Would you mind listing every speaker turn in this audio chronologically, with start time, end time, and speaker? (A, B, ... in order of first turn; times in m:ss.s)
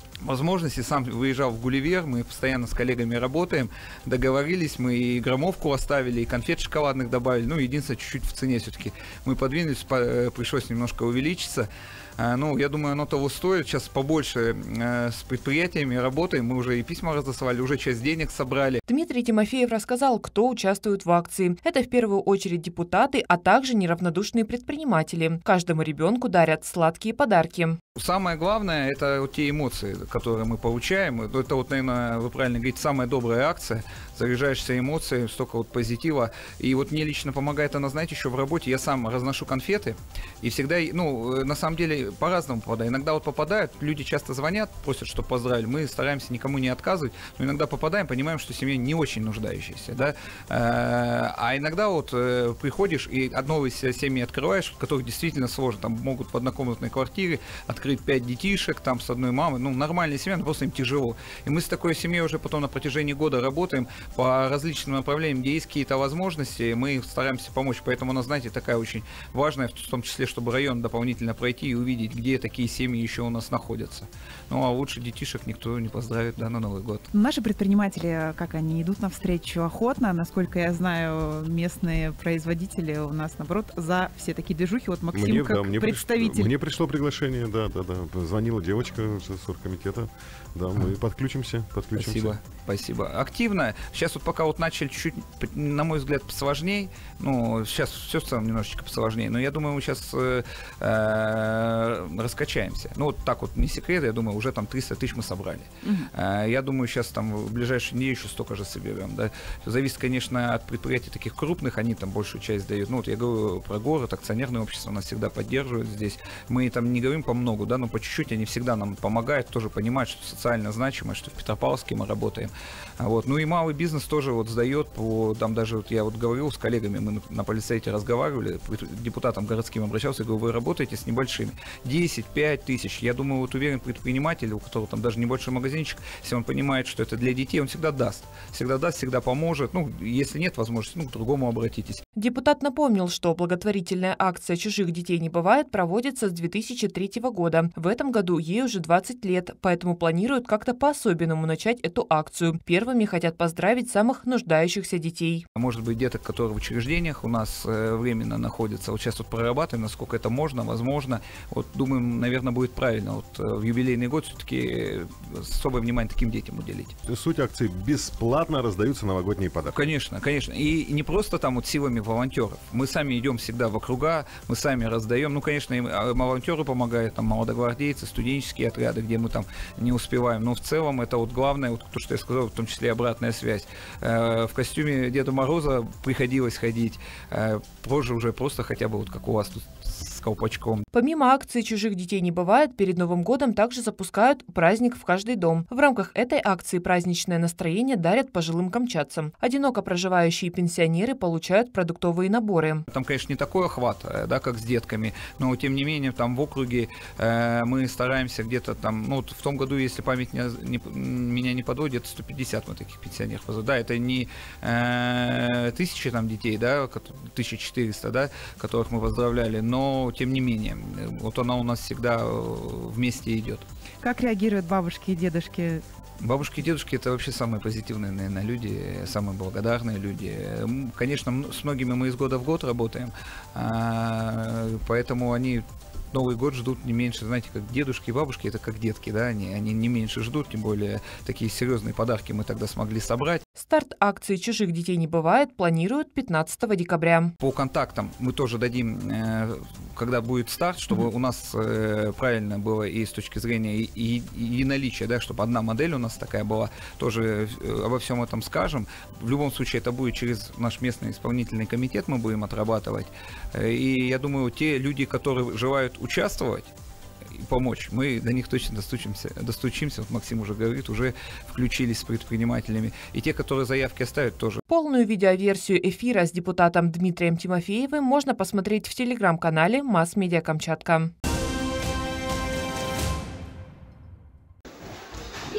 0:00.2-0:18.8 A
0:18.9-0:27.8 B
0:28.0-1:17.0 A
1:17.1-1:26.5 C
1:25.1-1:32.4 D
1:32.0-2:22.0 A
2:22.2-2:35.4 B
2:35.6-2:46.9 A
2:47.1-2:49.9 D
2:49.7-3:10.8 A
3:10.9-3:22.8 B
3:22.9-3:43.6 A
3:44.0-3:45.8 C
3:46.2-4:03.4 A
4:03.6-4:07.3 B
4:07.4-4:26.7 A
4:27.4-4:34.6 A
4:34.7-4:41.1 B